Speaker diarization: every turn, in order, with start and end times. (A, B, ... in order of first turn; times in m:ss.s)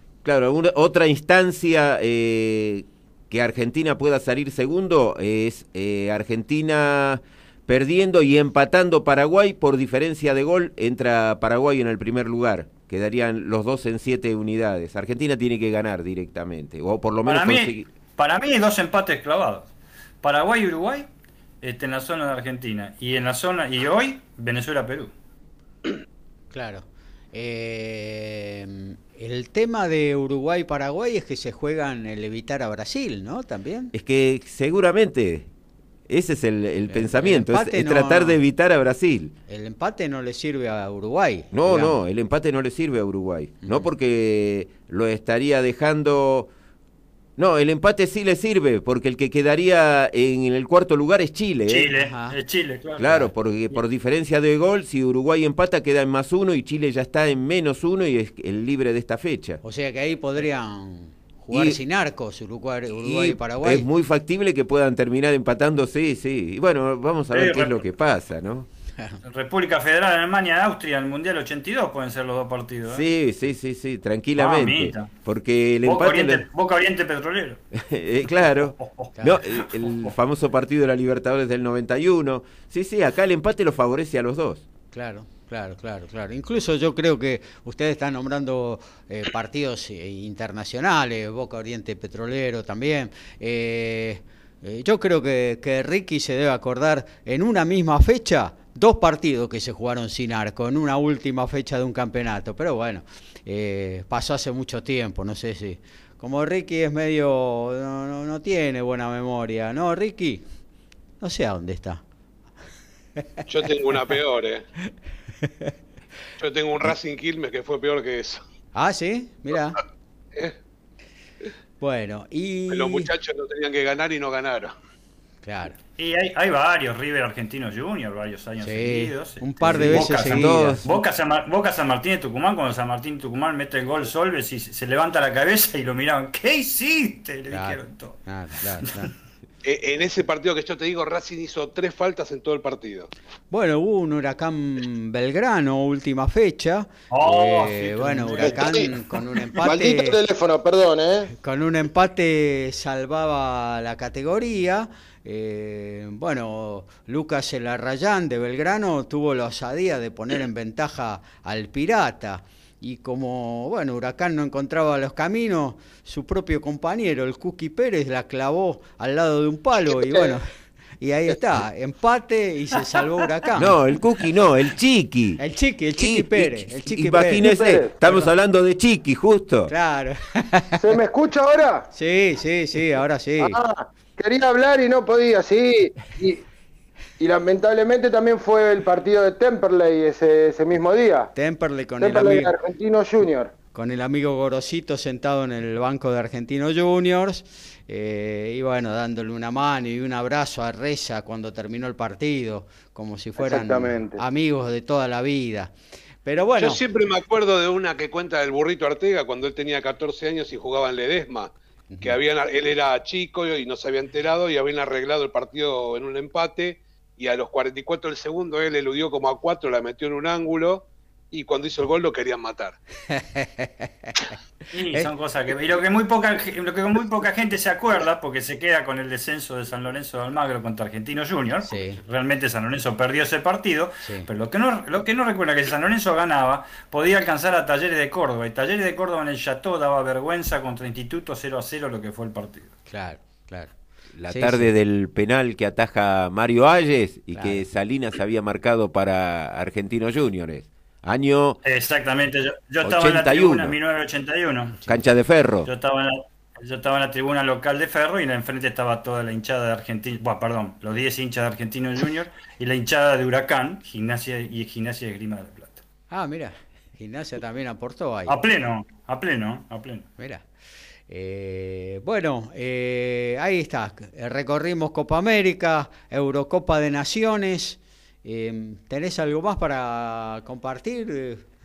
0:00.2-0:17.9 A
0:17.3-0:19.7 B
0:20.2-0:21.0 B
0:21.6-0:25.1 B
0:26.5-0:33.9 C
0:33.9-0:35.5 A
0:36.1-0:39.3 A
0:36.9-0:38.4 C
0:39.5-0:41.9 C
0:41.5-0:46.5 A
0:47.4-0:51.9 A
0:51.7-0:53.8 B
0:52.0-0:52.4 C
0:53.0-0:59.6 A
0:59.6-1:03.9 C
1:01.5-1:01.8 A
1:03.0-1:08.7 A
1:07.3-1:07.8 B
1:09.2-1:13.0 B
1:12.9-1:16.4 A
1:14.4-1:15.1 B
1:15.8-1:17.6 B
1:17.7-1:24.6 A
1:18.6-1:20.1 B
1:24.9-1:50.5 C
1:51.2-1:52.0 C
1:53.5-1:54.6 D
1:55.4-1:55.7 C
1:56.4-1:58.4 D
1:58.7-1:59.8 C
2:01.8-2:03.1 C
2:02.7-2:04.7 D
2:05.4-2:05.8 C
2:06.0-2:18.2 B
2:08.6-2:10.9 C
2:09.6-2:10.8 A
2:17.5-2:19.1 C
2:19.6-2:23.1 D
2:23.5-2:30.2 C
2:27.1-2:29.0 B
2:28.4-2:28.9 E
2:29.6-2:31.3 E
2:31.4-2:50.5 C
2:51.0-2:53.8 C
2:53.6-2:55.4 A
2:55.4-2:57.5 C
2:56.0-2:59.7 A
2:57.4-2:57.9 E
2:59.7-3:00.8 C
3:00.8-3:01.9 E
3:01.9-3:03.6 C
3:03.4-3:06.4 E
3:07.2-3:11.3 E
3:11.4-3:12.5 C
3:12.0-3:13.5 E
3:13.7-3:25.7 C
3:23.4-3:24.2 E
3:26.2-3:26.8 C
3:26.6-3:42.8 D
3:43.1-3:44.1 C
3:44.7-4:02.7 B
3:51.7-3:52.0 C
4:02.9-4:03.7 C
4:04.1-4:11.6 A
4:04.3-4:04.7 C
4:07.3-4:07.6 C
4:11.6-4:14.8 B
4:12.8-4:13.8 A
4:14.9-4:15.7 A
4:15.6-4:25.8 B
4:26.1-4:28.4 C
4:28.3-4:30.1 B
4:30.2-4:30.4 C
4:31.1-4:41.4 C